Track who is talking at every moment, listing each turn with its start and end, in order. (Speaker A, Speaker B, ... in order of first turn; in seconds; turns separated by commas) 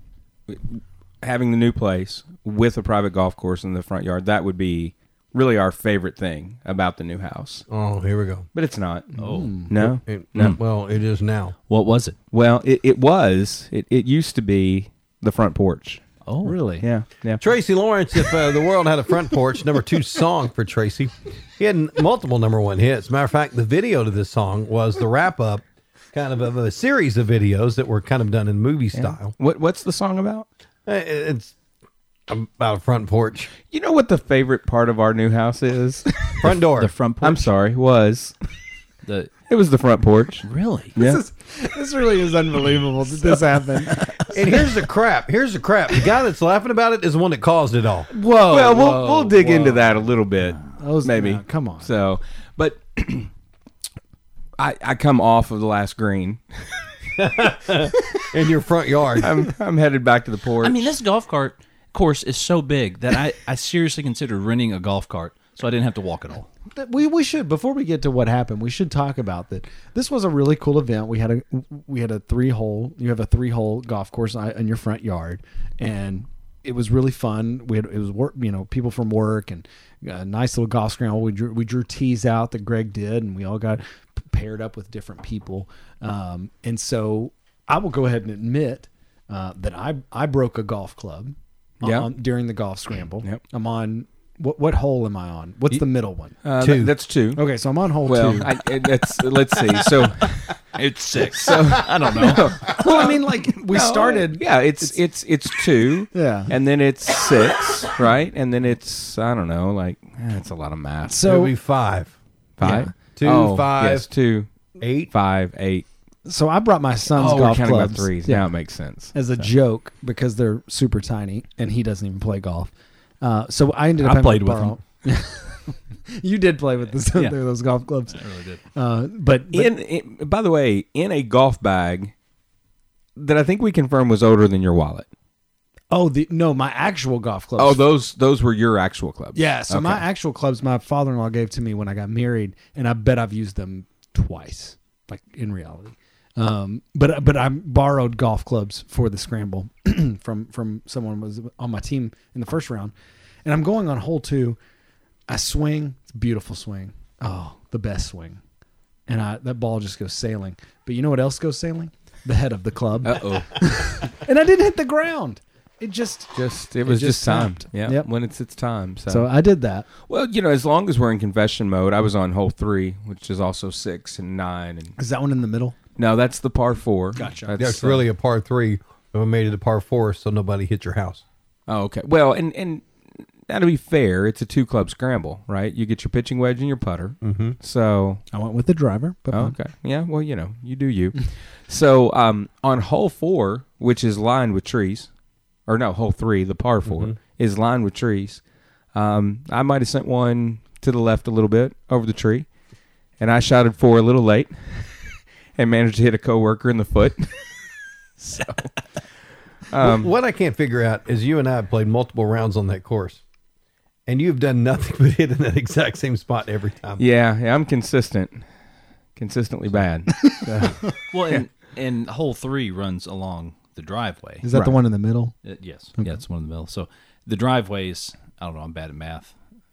Speaker A: 0.5-7.7, Speaker B: 7.7-8.5, Speaker A: 8.5-10.6, Speaker C: 9.2-9.7, Speaker D: 9.2-9.5, Speaker B: 9.8-11.6, Speaker D: 11.7-12.2, Speaker A: 12.3-16.0, Speaker D: 16.2-16.6, Speaker C: 16.4-16.8, Speaker A: 16.8-17.4, Speaker B: 17.4-29.3, Speaker A: 28.9-30.5, Speaker B: 30.9-31.5, Speaker B: 32.3-33.5, Speaker A: 33.7-36.3, Speaker B: 36.4-36.9, Speaker D: 36.8-37.5, Speaker A: 37.2-38.3, Speaker D: 39.0-39.3, Speaker A: 39.5-41.2, Speaker D: 40.4-40.9, Speaker C: 41.0-44.2, Speaker D: 43.9-44.2, Speaker B: 44.3-48.1, Speaker D: 48.1-49.9, Speaker A: 48.4-53.3, Speaker C: 50.8-51.9, Speaker A: 54.6-56.6, Speaker B: 57.2-59.3, Speaker A: 59.2-60.9, Speaker D: 60.6-66.5, Speaker C: 66.8-96.4, Speaker A: 91.8-92.1, Speaker A: 96.4-97.4, Speaker B: 96.6-96.9, Speaker C: 97.3-98.5, Speaker A: 98.0-100.6, Speaker D: 100.7-102.6, Speaker A: 101.3-111.2, Speaker C: 102.7-105.0, Speaker C: 106.1-106.5, Speaker C: 111.1-111.5, Speaker B: 111.2-112.1, Speaker A: 112.6-114.5, Speaker C: 112.6-112.9, Speaker B: 113.1-114.1, Speaker B: 114.8-115.1, Speaker A: 115.1-115.8, Speaker C: 116.2-118.5, Speaker A: 117.1-119.5, Speaker C: 119.1-128.2, Speaker D: 124.0-124.8, Speaker D: 127.1-127.4, Speaker D: 128.1-128.6, Speaker C: 128.7-129.7, Speaker A: 129.5-132.1, Speaker A: 133.2-135.1, Speaker C: 135.9-137.8, Speaker A: 137.6-140.0, Speaker C: 139.3-152.9, Speaker C: 153.4-154.6, Speaker C: 155.3-158.4, Speaker C: 159.1-168.1, Speaker A: 163.0-163.8, Speaker A: 166.3-169.3, Speaker C: 169.1-169.9, Speaker A: 170.0-174.9, Speaker C: 175.0-175.8, Speaker A: 176.0-178.0, Speaker C: 177.2-177.6, Speaker B: 177.6-181.2, Speaker A: 181.7-182.9, Speaker A: 183.5-188.2, Speaker B: 187.2-187.6, Speaker C: 188.3-189.5, Speaker A: 189.3-195.1, Speaker A: 195.7-198.4, Speaker B: 196.9-197.1, Speaker A: 198.9-202.5, Speaker A: 203.2-204.9, Speaker A: 205.6-207.5, Speaker A: 208.2-208.8, Speaker A: 209.7-210.1, Speaker B: 209.8-213.2, Speaker B: 214.1-217.0, Speaker A: 217.0-218.4, Speaker A: 219.2-220.8, Speaker C: 220.2-220.9, Speaker D: 221.1-224.4, Speaker C: 224.4-225.3, Speaker A: 224.5-224.8, Speaker D: 225.4-229.3